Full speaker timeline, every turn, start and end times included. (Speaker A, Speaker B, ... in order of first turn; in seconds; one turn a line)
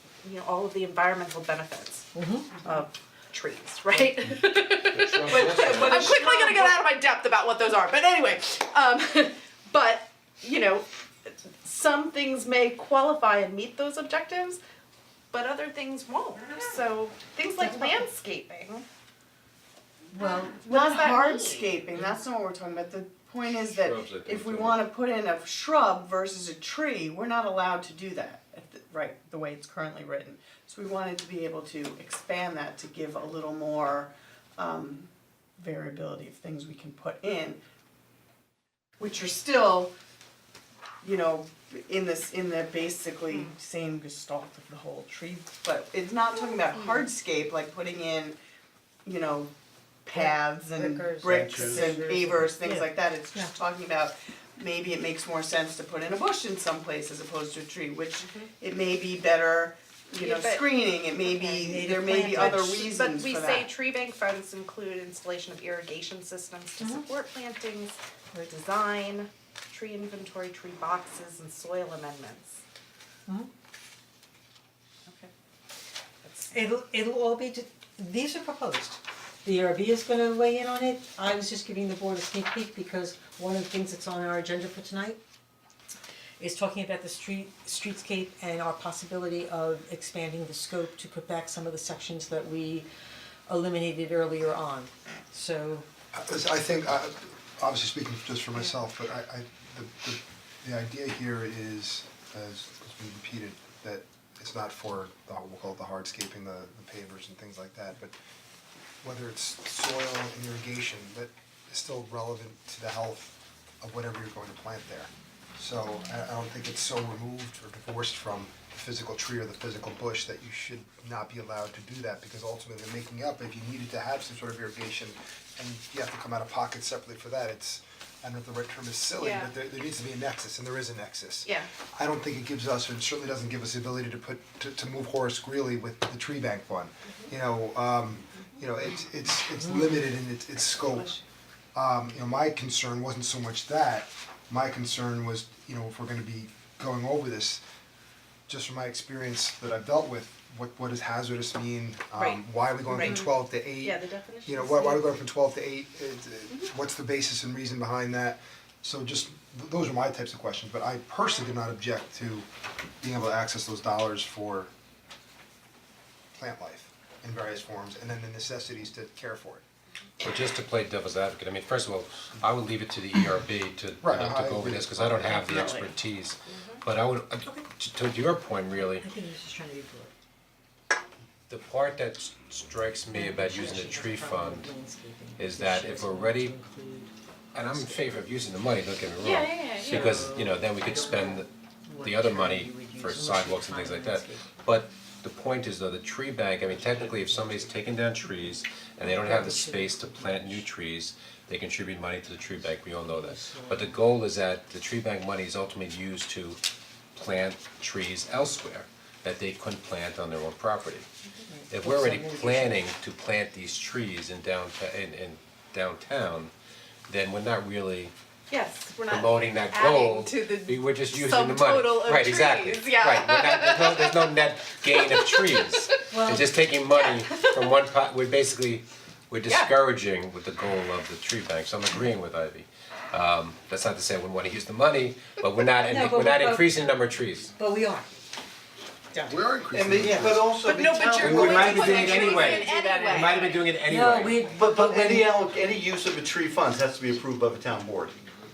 Speaker A: 0.2-2.1
Speaker B: 2.1-2.5
Speaker A: 2.6-14.6
Speaker C: 4.8-6.5
Speaker A: 15.3-18.8
Speaker D: 20.1-37.6
Speaker A: 20.6-21.8
Speaker C: 23.6-24.8
Speaker D: 39.0-39.9
Speaker D: 41.0-48.4
Speaker A: 43.3-43.5
Speaker A: 46.7-47.1
Speaker D: 49.0-49.5
Speaker D: 50.0-63.7
Speaker B: 50.1-53.5
Speaker E: 51.3-52.0
Speaker A: 58.2-58.5
Speaker A: 60.2-61.6
Speaker B: 61.6-62.9
Speaker A: 62.9-72.6
Speaker A: 75.0-75.3
Speaker A: 76.2-76.6
Speaker B: 76.5-85.2
Speaker B: 86.4-92.9
Speaker B: 93.5-95.8
Speaker F: 96.1-108.1
Speaker F: 109.0-141.2
Speaker A: 129.2-129.5
Speaker F: 141.7-147.6
Speaker F: 148.5-162.4
Speaker A: 152.1-155.2
Speaker F: 163.0-164.7
Speaker F: 166.3-169.6
Speaker C: 170.2-179.1
Speaker F: 174.0-175.9
Speaker A: 176.4-176.8
Speaker B: 179.0-180.1
Speaker C: 181.5-184.7
Speaker B: 183.1-188.2
Speaker C: 185.4-186.6
Speaker C: 187.5-191.5
Speaker A: 189.2-190.2
Speaker B: 189.7-194.6
Speaker C: 192.0-206.6
Speaker B: 199.0-200.6
Speaker B: 203.0-203.9
Speaker C: 207.1-211.1
Speaker B: 211.5-212.8
Speaker C: 211.7-216.5
Speaker C: 217.1-218.1
Speaker A: 218.5-224.4
Speaker C: 219.1-237.5
Speaker A: 224.9-225.9
Speaker B: 226.1-226.5
Speaker A: 226.9-227.5
Speaker A: 229.5-229.7
Speaker B: 235.8-236.7
Speaker B: 237.6-238.1
Speaker F: 239.2-240.5
Speaker E: 239.7-242.7
Speaker A: 240.6-243.6
Speaker C: 241.2-244.5
Speaker D: 242.3-243.2
Speaker B: 243.9-245.3
Speaker E: 244.4-248.2